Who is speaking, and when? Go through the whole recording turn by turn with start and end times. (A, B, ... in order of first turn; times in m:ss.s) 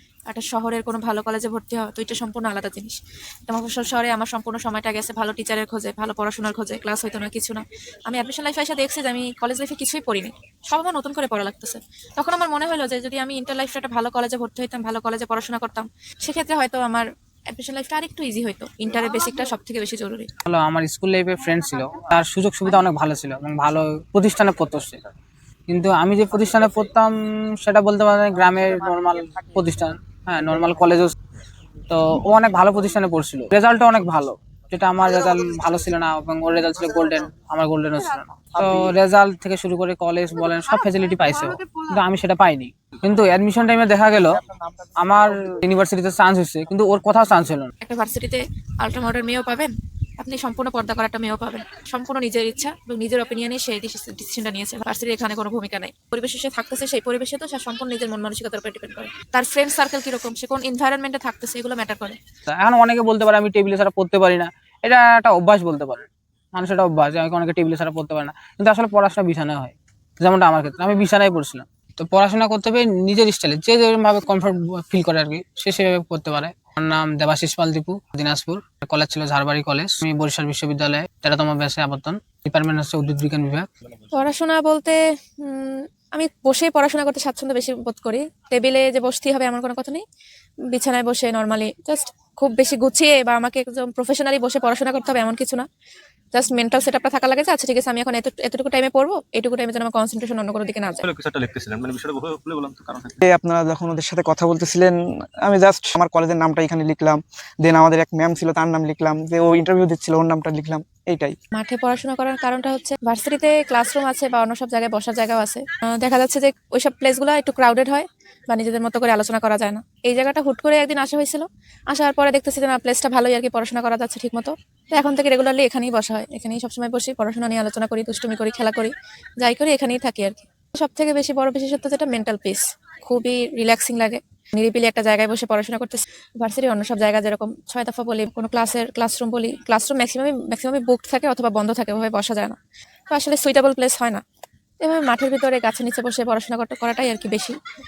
0:00.3-0:20.3 A
0:20.4-0:25.0 B
0:25.7-0:31.2 B
0:31.9-0:47.7 B
0:47.8-1:02.2 A
1:02.5-1:23.7 B
1:24.1-1:30.0 A
1:30.7-1:35.6 A
1:36.3-1:41.0 A
1:41.0-1:43.2 C
1:43.2-1:44.9 D
1:45.4-1:51.3 D
1:51.5-2:22.6 A
2:23.1-2:24.2 A
2:24.8-2:27.5 A